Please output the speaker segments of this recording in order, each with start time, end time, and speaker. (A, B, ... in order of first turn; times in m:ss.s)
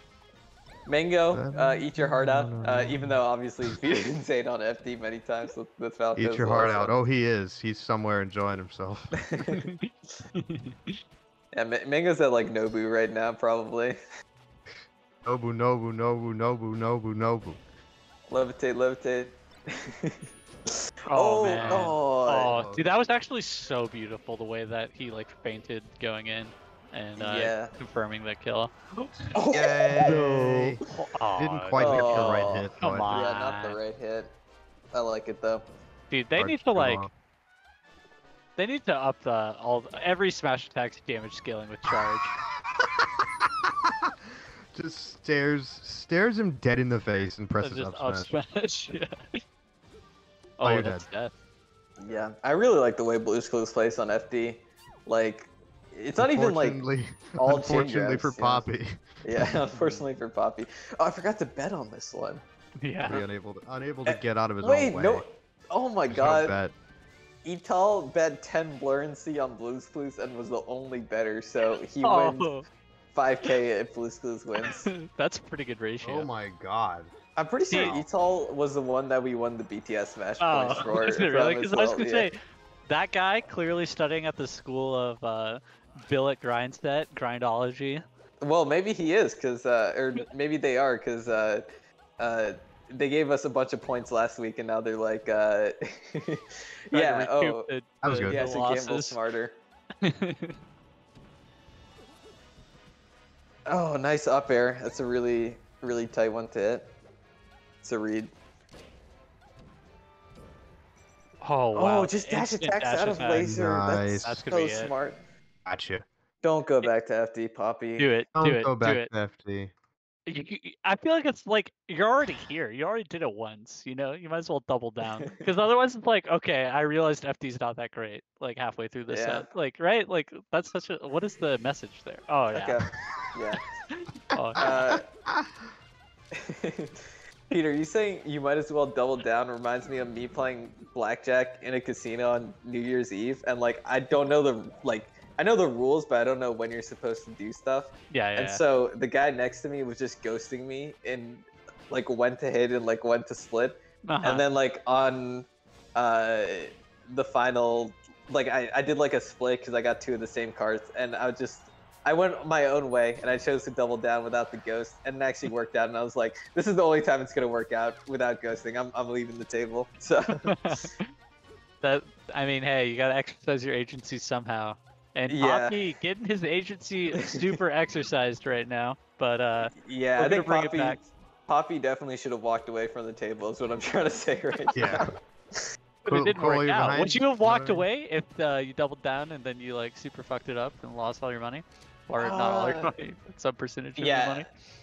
0:00.8-0:06.9 A
0:01.3-0:03.7 B
0:06.2-0:09.2 B
0:09.2-0:09.6 A
0:09.5-0:11.0 C
0:11.5-0:14.0 A
0:14.7-0:17.6 B
0:18.3-0:20.3 A
0:21.1-0:29.1 C
0:21.1-0:22.5 A
0:21.5-0:22.9 B
0:27.2-0:27.8 A
0:29.3-0:30.2 A
0:29.5-0:30.8 B
0:30.0-0:33.8 C
0:31.4-0:33.1 B
0:31.8-0:34.3 A
0:34.9-0:35.6 A
0:36.1-0:37.1 C
0:36.4-0:37.1 B
0:38.6-0:42.4 C
0:42.8-0:44.1 B
0:44.7-0:48.4 B
0:47.6-0:49.1 C
0:50.6-0:51.3 C
0:50.6-0:51.0 B
0:52.0-0:56.8 A
0:52.1-0:52.3 B
0:56.2-0:59.6 B
0:57.4-0:58.7 A
0:59.2-1:02.4 A
0:59.7-1:00.0 C
1:02.8-1:03.2 C
1:03.1-1:05.2 B
1:04.1-1:06.5 A
1:06.1-1:06.7 B
1:07.4-1:12.5 A
1:12.0-1:12.6 C
1:13.1-1:14.9 A
1:14.6-1:16.3 C
1:16.0-1:17.1 B
1:17.4-1:22.3 A
1:17.7-1:17.9 C
1:17.7-1:18.1 B
1:20.4-1:22.4 C
1:22.9-1:28.0 C
1:28.4-1:31.7 A
1:32.2-1:37.7 A
1:36.9-1:39.2 C
1:38.0-1:38.4 B
1:38.3-1:39.6 A
1:40.0-1:40.6 C
1:43.6-1:46.9 A
1:47.8-1:48.3 A
1:51.4-1:53.6 C
1:51.7-1:55.2 A
1:53.4-1:54.4 B
1:54.2-1:54.9 C
1:55.6-1:56.0 B
1:56.4-1:58.1 A
1:58.0-1:59.1 C
1:58.3-1:59.7 B
2:00.3-2:12.8 C
2:09.1-2:09.4 A
2:12.5-2:13.6 A
2:13.9-2:14.7 C
2:14.3-2:15.7 B
2:14.6-2:15.0 A
2:16.4-2:50.9 A
2:28.1-2:28.6 C
2:34.0-2:34.4 C
2:50.4-2:51.1 C
2:51.8-3:01.0 C
2:55.3-2:55.8 A
2:59.6-3:05.6 A
3:04.7-3:05.1 B
3:06.0-3:14.5 C
3:06.0-3:07.9 B
3:12.2-3:12.9 A
3:14.0-3:14.5 A